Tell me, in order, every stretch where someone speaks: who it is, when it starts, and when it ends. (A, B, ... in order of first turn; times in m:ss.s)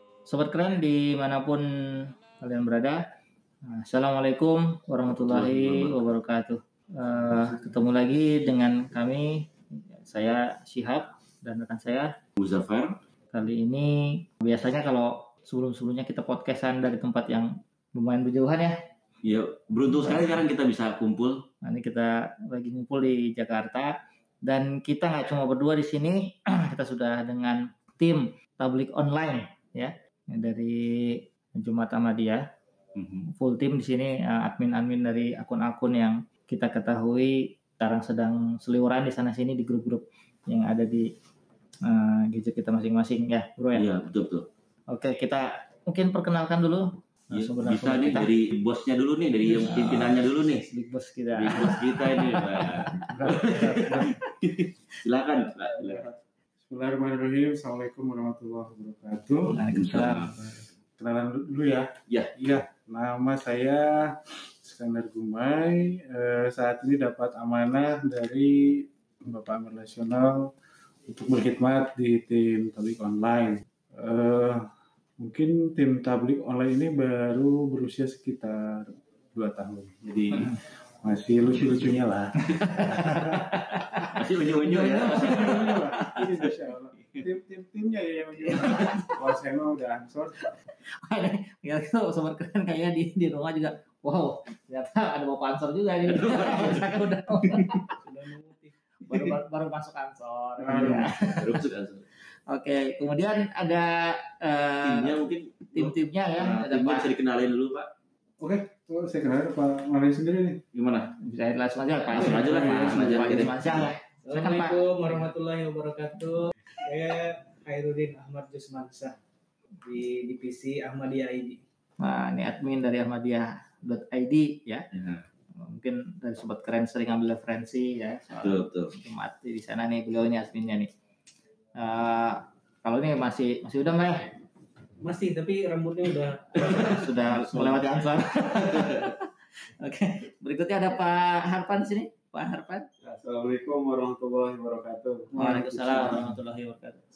0:00.3-0:01.6 A
0:02.4-0:03.0 A
0:03.6-0:12.1 A
0:05.2-0:06.1 B
0:12.4-0:13.0 B
0:13.3-0:18.8 A
0:19.2-0:21.4 B
0:19.9-0:20.4 A
0:21.6-0:32.5 A
0:33.0-0:33.3 B
0:33.3-0:41.1 A
0:41.8-0:43.9 A
0:43.8-0:44.5 B
0:44.9-0:48.3 A
0:47.3-0:50.7 B
0:49.4-0:50.2 A
0:50.7-0:54.2 A
0:51.3-0:56.0 B
0:53.1-0:54.1 C
0:55.8-0:59.6 C
0:59.5-1:00.6 A
0:59.7-1:00.5 B
1:01.0-1:10.5 C
1:02.1-1:02.3 B
1:11.1-1:14.7 C
1:15.2-1:23.5 C
1:22.6-1:24.1 A
1:24.0-1:26.5 B
1:24.4-1:30.5 C
1:28.7-1:29.0 A
1:31.0-1:37.9 A
1:36.1-1:37.7 B
1:38.0-1:38.7 D
1:39.1-1:41.6 A
1:40.6-1:41.1 C
1:40.9-1:42.0 B
1:42.5-1:45.2 A
1:44.8-1:47.9 B
1:45.7-1:47.1 A
1:48.4-1:50.6 C
1:50.7-1:51.1 B
1:51.2-1:54.9 A
1:52.1-1:53.9 B
1:54.2-1:59.2 D
1:59.8-2:01.6 D
2:02.0-2:04.8 A
2:04.9-2:05.2 B
2:05.6-2:10.9 A
2:08.4-2:08.9 B
2:11.8-2:14.3 A
2:15.0-2:17.2 D
2:16.6-2:19.3 A
2:16.7-2:17.9 B
2:18.5-2:19.1 B
2:19.8-2:22.8 A
2:23.0-2:26.2 E
2:25.3-2:27.0 A
2:25.5-2:26.0 C